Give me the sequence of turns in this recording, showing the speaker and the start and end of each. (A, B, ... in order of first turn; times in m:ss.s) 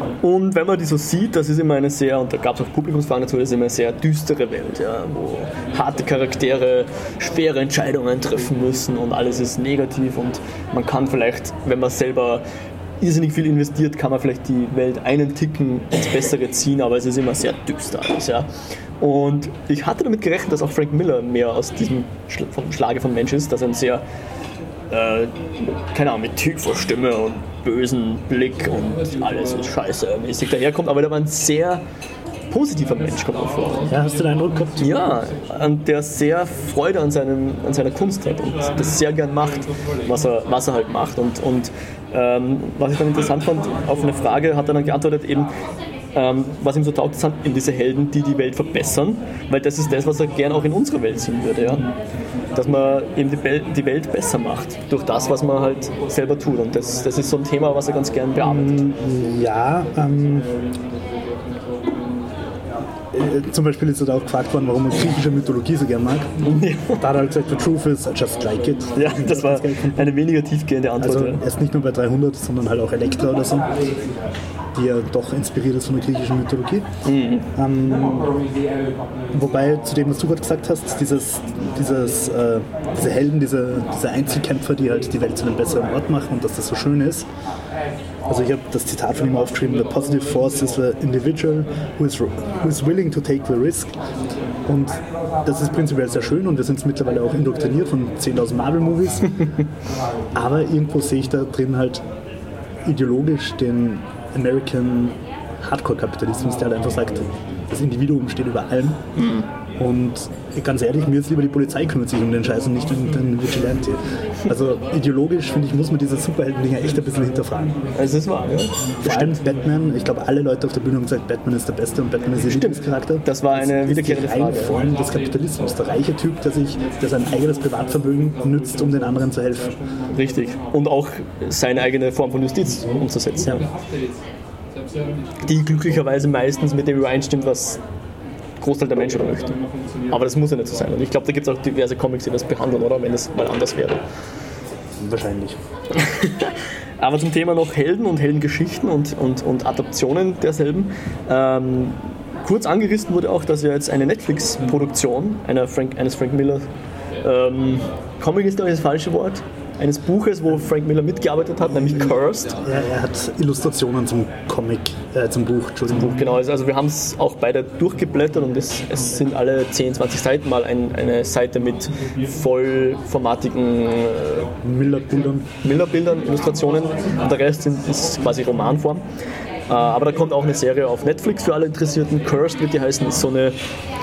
0:00.2-0:12.4 A
0:13.0-0:24.0 A
0:24.9-0:31.8 A
0:32.5-0:33.9 A
0:33.9-0:35.0 B
0:34.8-0:45.5 A
0:46.1-0:51.9 A
0:52.6-0:58.9 A
0:58.4-1:00.6 B
1:03.1-1:10.1 B
1:06.4-1:07.0 A
1:09.0-1:11.4 A
1:11.0-1:13.7 B
1:14.7-1:16.9 B
1:17.0-1:17.5 A
1:17.6-1:18.4 B
1:19.3-1:27.3 B
1:28.3-1:33.9 B
1:34.6-1:39.6 B
1:40.4-1:42.0 B
1:42.8-1:49.0 B
1:49.2-1:49.5 A
1:49.8-1:57.8 B
1:58.0-1:59.4 A
1:59.0-2:09.8 B
2:02.5-2:04.8 A
2:10.1-2:13.7 A
2:15.4-2:17.8 A
2:18.6-2:24.0 A
2:25.0-2:25.6 B
2:25.9-2:36.6 A
2:37.2-2:42.6 A
2:41.9-2:46.3 B
2:45.9-2:54.5 A
2:54.6-2:55.5 B
2:55.6-2:59.0 A
2:59.7-3:03.6 A